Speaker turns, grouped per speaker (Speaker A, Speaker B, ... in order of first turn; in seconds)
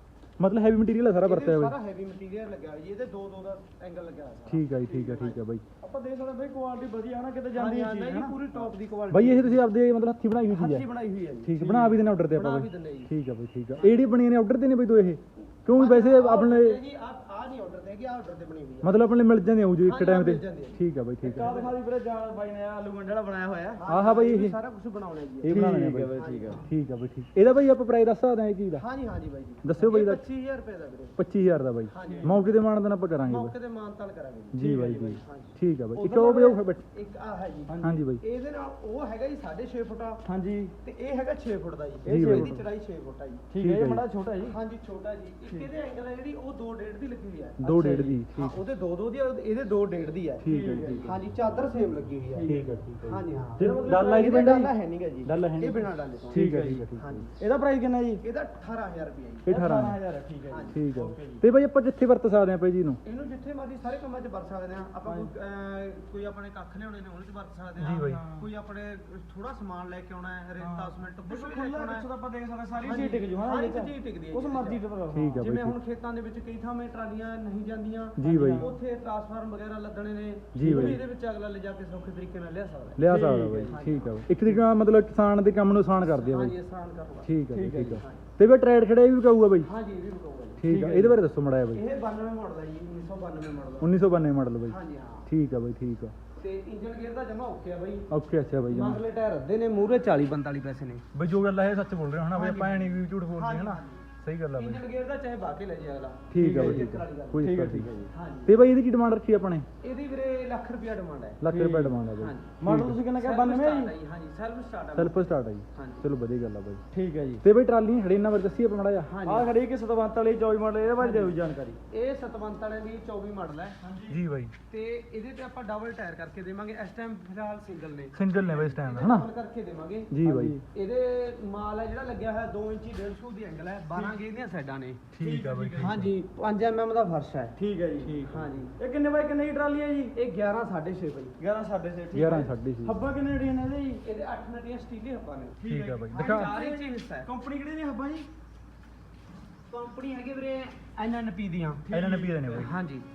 Speaker A: 0.4-1.7, 4.5-5.6, 9.1-10.8, 11.4-16.8, 18.8-21.5, 23.9-24.6, 25.4-26.1, 26.6-28.8, 29.6-30.2, 31.2-33.5, 34.5-36.8, 37.8-38.2, 42.1-42.5, 43.6-44.0, 47.6-48.6, 50.4-51.2, 52.4-54.7, 55.2-57.2, 59.5-60.0, 60.7-63.0, 67.8-68.2, 75.1-75.8, 78.2-78.7, 80.5-81.0, 83.0-86.5, 87.2-89.7, 90.6-91.8, 93.8-94.8, 95.3-96.1, 98.1-99.0, 101.1-104.8, 106.3-107.9, 108.5-109.7, 111.4-113.0, 115.0-116.8, 117.4-119.1, 124.1-124.5, 128.1-129.3, 130.1-130.6, 135.1-136.1, 142.1-143.0, 145.7-146.5, 151.9-152.7
Speaker B: 1.2-5.4, 7.5-9.6, 10.5-11.5, 12.3-13.1, 13.8-14.0, 15.7-18.9, 19.8-20.8, 23.8-25.6, 26.1-26.6, 28.7-31.2, 31.9-32.5, 33.2-34.6, 35.1-40.2, 40.8-43.5, 44.5-47.6, 48.3-50.5, 51.0-52.5, 53.0-56.4, 57.0-57.3, 58.2-59.5, 60.5-60.8, 63.0-72.1, 72.8-74.8, 75.4-83.0, 83.6-84.2, 86.0-87.3, 88.0-88.2, 89.6-90.6, 91.7-94.0, 94.7-95.3, 96.4-98.0, 98.7-101.0, 102.3-107.4, 108.1-108.5, 109.8-111.4, 112.2-112.5, 113.2-116.1, 119.0-119.5, 121.0-121.3, 121.9-123.8, 124.7-130.1, 130.7-135.0, 135.8-137.5, 138.3-138.7, 140.1-141.4, 144.0-145.6, 146.1-147.3, 149.7-151.8, 152.6-153.1
Speaker C: 4.8-5.1, 5.8-8.4, 11.6-12.0, 21.2-23.8, 25.5-26.7, 32.0-32.4, 34.6-35.2, 37.7-38.0, 40.2-40.7, 42.0-42.6, 43.5-44.5, 47.6-48.2, 50.5-51.1, 52.3-52.8, 53.5-54.6, 56.3-56.8, 57.4-58.2, 59.5-61.4, 65.0-65.3, 68.0-68.5, 70.6-75.5, 78.4-78.8, 80.6-81.0, 83.0-83.8, 87.5-88.0, 90.6-91.2, 106.3-108.1, 111.5-112.0, 112.6-113.9, 116.9-117.4, 119.2-121.8, 123.8-124.2, 130.2-130.6, 135.2-136.0, 137.6-140.1, 141.4-144.0, 145.6-148.3, 151.8-152.7